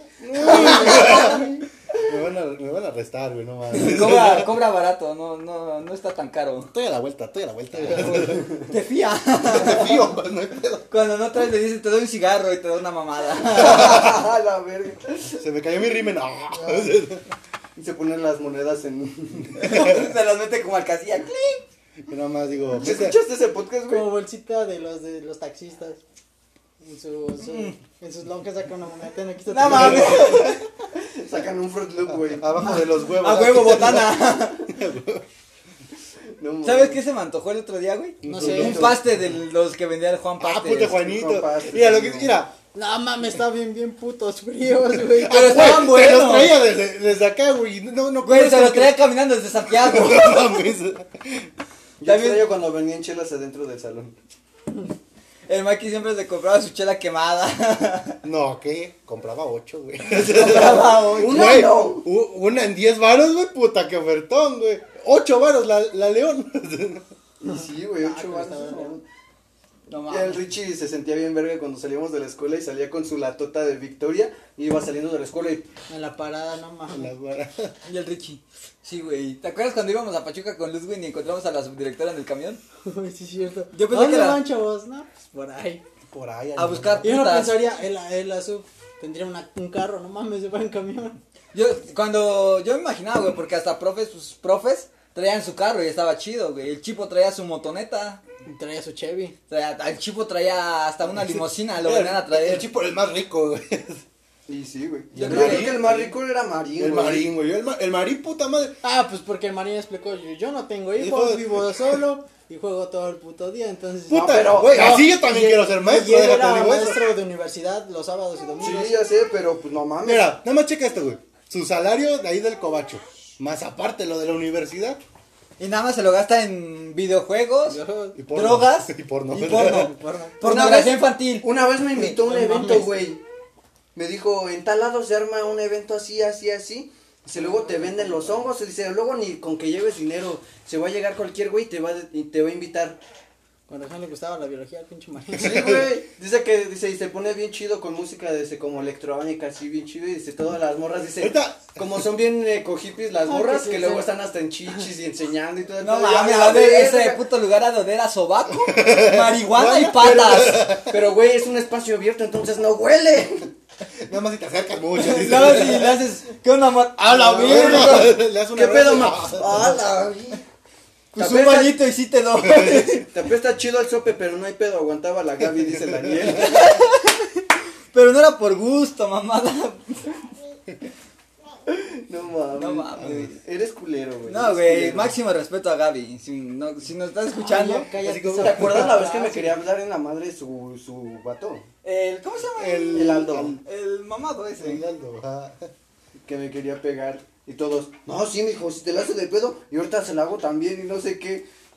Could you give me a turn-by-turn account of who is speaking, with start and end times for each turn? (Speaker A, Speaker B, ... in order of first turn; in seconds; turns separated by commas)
Speaker A: 0.2-4.6, Speaker B: 0.4-1.4, Speaker C: 0.4-1.5, Speaker B: 3.7-6.7, Speaker A: 6.6-8.5, Speaker C: 8.1-8.7, Speaker B: 8.7-10.0, Speaker A: 9.4-10.8, Speaker B: 10.9-14.2, Speaker C: 13.5-15.4, Speaker A: 13.8-14.2, Speaker A: 15.4-17.2, Speaker D: 16.5-16.9, Speaker C: 17.8-19.7, Speaker B: 19.6-21.6, Speaker A: 19.6-20.1, Speaker A: 22.1-23.2, Speaker C: 22.7-24.1, Speaker D: 23.9-26.0, Speaker D: 26.8-30.5, Speaker B: 27.4-27.8, Speaker B: 29.5-30.6, Speaker A: 29.6-30.5, Speaker C: 30.9-32.5, Speaker A: 32.2-35.2, Speaker B: 33.1-34.7, Speaker C: 36.4-37.0, Speaker B: 36.6-41.0, Speaker A: 38.2-38.9, Speaker D: 38.2-38.9, Speaker C: 38.5-39.0, Speaker A: 40.4-42.5, Speaker C: 40.9-42.4, Speaker D: 42.7-45.6, Speaker A: 44.9-49.0, Speaker B: 45.2-46.6, Speaker B: 48.2-50.6, Speaker A: 49.6-51.5, Speaker C: 52.0-54.1, Speaker B: 52.0-52.5, Speaker B: 55.5-58.2, Speaker A: 58.2-67.0, Speaker B: 60.1-61.6, Speaker C: 60.3-62.0, Speaker C: 67.4-69.0, Speaker D: 67.4-69.0, Speaker B: 69.9-70.4, Speaker C: 70.1-75.7, Speaker D: 75.9-77.1, Speaker A: 76.9-77.7, Speaker B: 77.8-82.6, Speaker D: 82.8-85.8, Speaker B: 83.7-84.4, Speaker A: 86.1-87.2, Speaker B: 86.5-87.6, Speaker D: 87.0-91.2, Speaker B: 91.5-98.2, Speaker D: 98.5-99.3, Speaker B: 99.5-102.7, Speaker A: 101.1-104.0, Speaker C: 104.5-107.3, Speaker A: 105.1-106.1, Speaker B: 105.2-105.9, Speaker A: 106.8-108.7, Speaker D: 108.8-119.0, Speaker A: 111.0-112.0, Speaker A: 114.1-117.0, Speaker C: 114.1-115.0, Speaker C: 118.6-120.3, Speaker A: 120.0-125.0, Speaker B: 125.6-127.8, Speaker D: 127.7-128.2, Speaker A: 128.2-129.9, Speaker B: 128.3-131.5, Speaker D: 129.9-130.4, Speaker C: 130.4-133.2, Speaker D: 132.0-133.0, Speaker C: 133.9-143.0, Speaker D: 137.4-137.8, Speaker D: 143.7-145.8, Speaker C: 145.3-157.2, Speaker A: 145.4-145.9, Speaker A: 151.2-152.0, Speaker D: 153.2-154.1, Speaker B: 155.8-160.6, Speaker A: 158.6-161.0, Speaker C: 160.0-163.5, Speaker A: 164.0-166.0, Speaker B: 165.0-168.2, Speaker A: 167.3-169.7, Speaker C: 167.4-170.4, Speaker B: 171.1-173.1, Speaker C: 171.2-171.7, Speaker A: 172.4-173.0, Speaker C: 173.0-176.7, Speaker A: 175.9-176.4, Speaker B: 176.3-180.2, Speaker C: 181.7-185.1, Speaker B: 182.6-183.3, Speaker B: 184.3-187.9, Speaker D: 187.3-189.6, Speaker A: 188.0-189.0, Speaker C: 188.4-191.7, Speaker B: 191.8-194.8, Speaker A: 192.6-193.6, Speaker C: 192.9-193.6, Speaker A: 194.6-195.7, Speaker C: 196.2-201.4